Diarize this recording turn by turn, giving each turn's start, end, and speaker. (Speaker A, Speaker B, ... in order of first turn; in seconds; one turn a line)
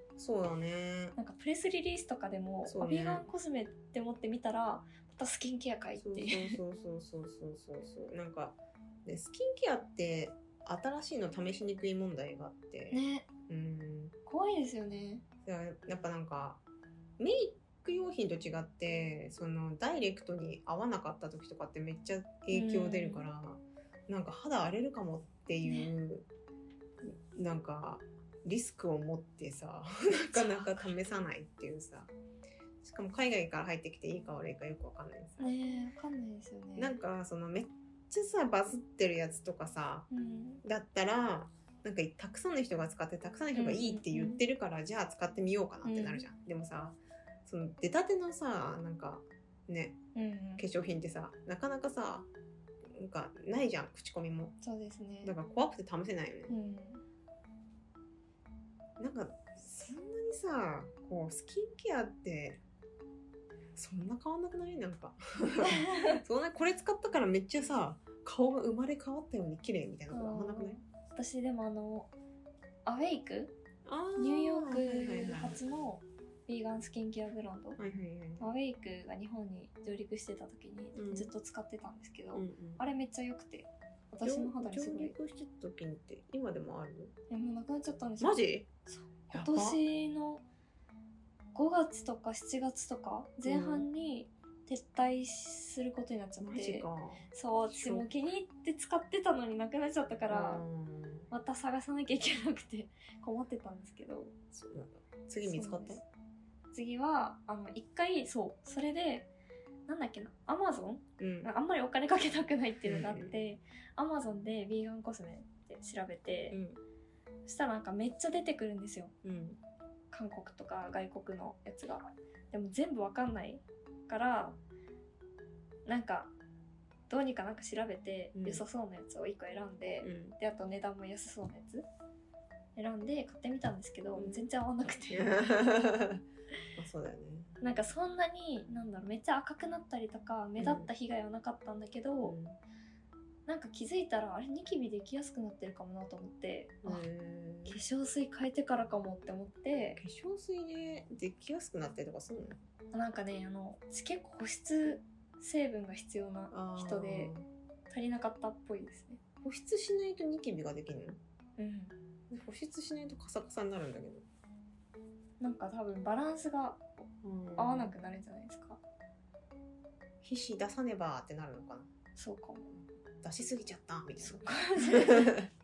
Speaker A: 0.2-1.2
Speaker B: 1.2-6.6
Speaker A: 2.6-3.3
Speaker A: 6.0-14.1
Speaker B: 12.9-13.3
Speaker B: 14.3-15.2
Speaker A: 15.5-16.6
Speaker A: 17.2-26.3
Speaker B: 22.5-23.3
Speaker B: 25.6-25.9
Speaker A: 27.0-32.1
Speaker B: 30.3-30.9
Speaker A: 32.8-35.5
Speaker B: 35.4-37.0
Speaker A: 36.8-40.1
Speaker B: 40.1-40.6
Speaker A: 40.6-50.0
Speaker B: 43.5-44.4
Speaker B: 45.8-46.2
Speaker B: 50.1-50.6
Speaker A: 50.6-52.3
Speaker A: 52.9-54.5
Speaker B: 54.6-55.4
Speaker A: 55.2-56.5
Speaker B: 56.5-57.0
Speaker A: 59.0-62.6
Speaker A: 63.8-70.8
Speaker B: 65.6-66.2
Speaker B: 70.1-72.1
Speaker B: 72.8-73.6
Speaker A: 73.8-75.6
Speaker B: 74.2-77.8
Speaker A: 77.8-78.5
Speaker B: 78.4-85.2
Speaker A: 80.9-81.3
Speaker A: 82.3-82.8
Speaker A: 84.2-87.2
Speaker B: 87.3-90.4
Speaker A: 88.2-88.7
Speaker A: 89.3-89.8
Speaker B: 91.5-100.6
Speaker A: 93.5-93.9
Speaker A: 96.4-98.1
Speaker A: 100.3-101.3
Speaker B: 101.3-104.3
Speaker A: 104.5-106.0
Speaker B: 105.4-106.0
Speaker B: 106.7-109.3
Speaker B: 109.9-116.6
Speaker A: 111.2-111.5
Speaker A: 112.8-113.4
Speaker A: 116.5-116.8
Speaker B: 117.5-119.1
Speaker A: 119.2-119.6
Speaker B: 120.1-124.6
Speaker B: 125.8-126.3
Speaker B: 127.1-131.9
Speaker A: 128.3-128.6
Speaker A: 130.0-130.4
Speaker B: 132.8-135.3
Speaker A: 134.1-134.5
Speaker A: 135.1-136.2
Speaker A: 136.8-137.6
Speaker B: 137.6-142.4
Speaker A: 140.6-140.9
Speaker A: 142.2-142.6
Speaker B: 143.5-147.1
Speaker A: 146.8-147.8
Speaker B: 147.7-150.0
Speaker A: 150.0-152.6
Speaker B: 152.9-157.3
Speaker A: 156.5-157.5
Speaker B: 157.9-159.2
Speaker A: 159.4-161.2
Speaker B: 161.6-161.9
Speaker A: 162.3-164.2
Speaker B: 165.4-168.8
Speaker A: 167.2-168.0
Speaker A: 170.2-171.9
Speaker B: 172.2-172.8
Speaker A: 173.2-175.5
Speaker B: 174.2-175.4